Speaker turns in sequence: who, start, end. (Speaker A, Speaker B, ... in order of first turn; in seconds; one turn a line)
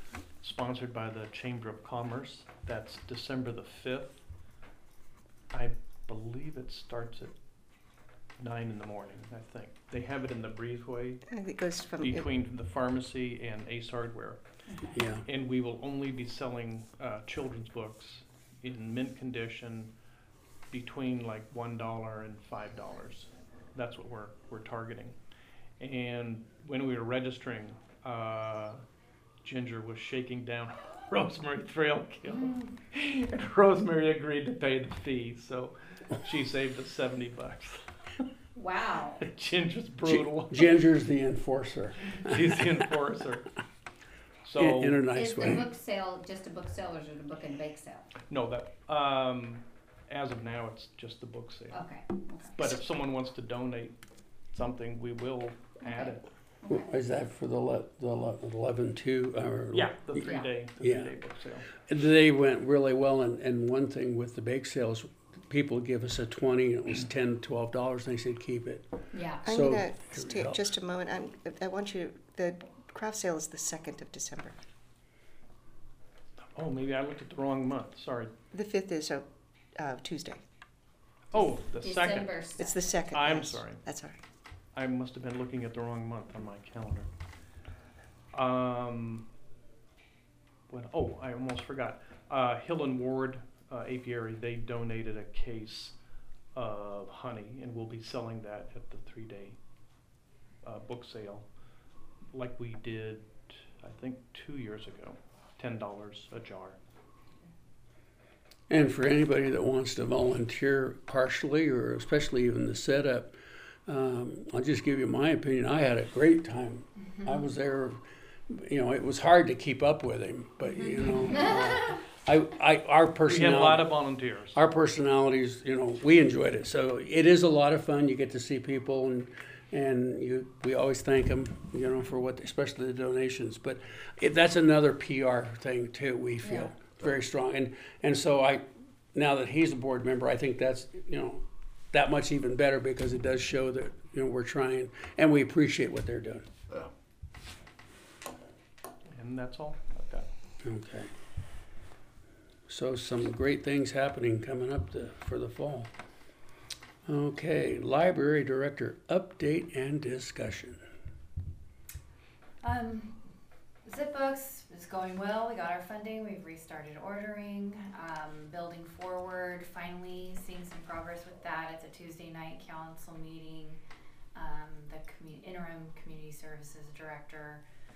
Speaker A: 0.4-4.2
Speaker A: 5.5-7.3
Speaker A: 8.4-11.2
Speaker B: 11.3-12.3
Speaker A: 12.0-14.4
Speaker C: 14.9-15.2
Speaker A: 15.2-19.9
Speaker A: 20.7-25.1
Speaker A: 25.8-28.8
Speaker A: 29.4-38.2
Speaker D: 38.5-39.3
Speaker A: 39.2-40.8
Speaker C: 40.0-42.8
Speaker A: 42.1-43.5
Speaker A: 44.4-45.0
Speaker C: 44.6-45.7
Speaker D: 45.1-48.1
Speaker A: 48.3-51.8
Speaker D: 51.7-52.7
Speaker A: 52.5-53.9
Speaker A: 54.5-56.3
Speaker D: 55.8-56.9
Speaker C: 56.7-60.3
Speaker A: 59.7-61.7
Speaker D: 60.2-60.5
Speaker C: 60.8-61.1
Speaker C: 61.8-68.9
Speaker D: 69.1-69.4
Speaker C: 69.4-70.7
Speaker B: 69.4-74.6
Speaker A: 76.5-78.3
Speaker B: 78.5-79.2
Speaker B: 79.8-80.4
Speaker A: 81.3-82.3
Speaker D: 81.3-82.9
Speaker B: 82.6-84.2
Speaker A: 83.1-83.8
Speaker A: 84.7-87.1
Speaker A: 88.3-89.2
Speaker A: 90.7-95.9
Speaker A: 96.5-99.6
Speaker A: 100.6-101.4
Speaker A: 102.3-106.8
Speaker C: 108.7-113.3
Speaker C: 113.9-123.9
Speaker E: 117.0-117.4
Speaker E: 120.8-121.3
Speaker A: 123.2-124.6
Speaker C: 124.5-146.4
Speaker D: 136.4-136.7
Speaker A: 149.1-150.3
Speaker C: 150.6-151.1
Speaker C: 152.7-155.9
Speaker C: 157.1-160.8
Speaker E: 162.6-163.2
Speaker E: 163.8-173.8
Speaker E: 174.3-177.6